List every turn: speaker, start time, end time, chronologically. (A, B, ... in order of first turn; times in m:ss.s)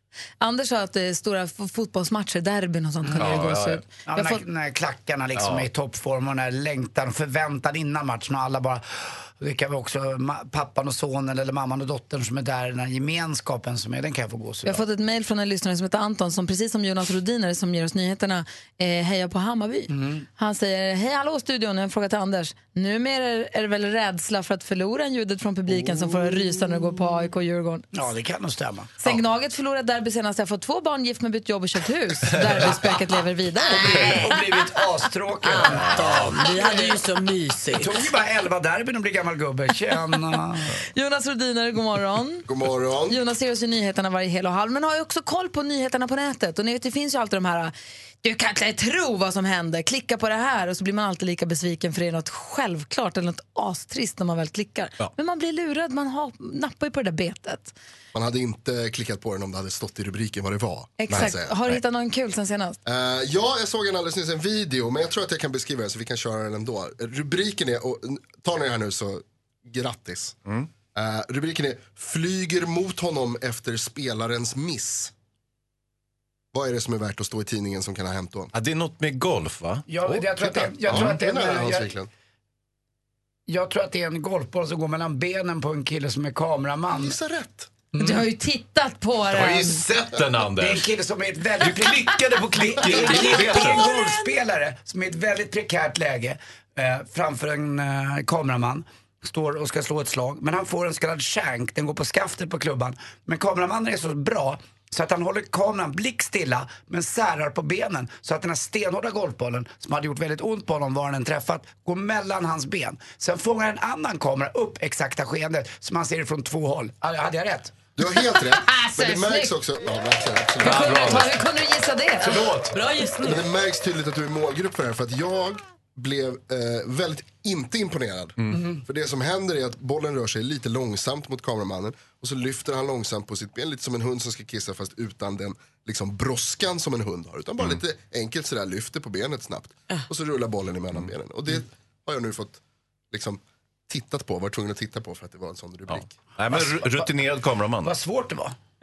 0:00.4-0:04.4 A
0:03.0-0:14.8 B
0:03.2-0:03.8 C
0:05.4-0:05.7 C
0:14.6-0:28.0 A
0:19.9-0:20.2 B
0:27.9-0:29.2 B
0:29.0-0:34.2 A
0:32.3-0:32.8 C
0:33.7-0:37.0 B
0:35.4-0:38.0 D
0:35.6-0:36.4 C
0:37.7-0:40.7 B
0:40.9-0:42.5 A
0:42.5-0:43.2 E
0:43.1-0:57.8 A
0:58.1-1:01.6 E
1:01.0-1:02.8 A
1:01.1-1:01.8 C
1:02.8-1:10.4 E
1:10.9-1:15.1 E
1:16.5-1:18.5 E
1:18.5-1:21.2 C
1:19.9-1:21.9 B
1:20.4-1:22.1 E
1:23.5-1:27.2 B
1:26.9-1:27.8 E
1:27.9-1:28.3 B
1:28.0-1:29.8 A
1:29.3-1:30.9 C
1:30.5-1:57.8 B
1:31.6-1:34.0 C
1:58.0-2:01.2 E
1:58.3-1:59.6 A
2:00.6-2:01.4 C
2:00.6-2:02.5 A
2:02.2-2:02.8 C
2:02.7-2:03.5 D
2:03.2-2:22.6 E
2:23.1-2:26.2 E
2:25.9-2:28.0 C
2:26.5-2:27.2 B
2:27.8-2:28.6 B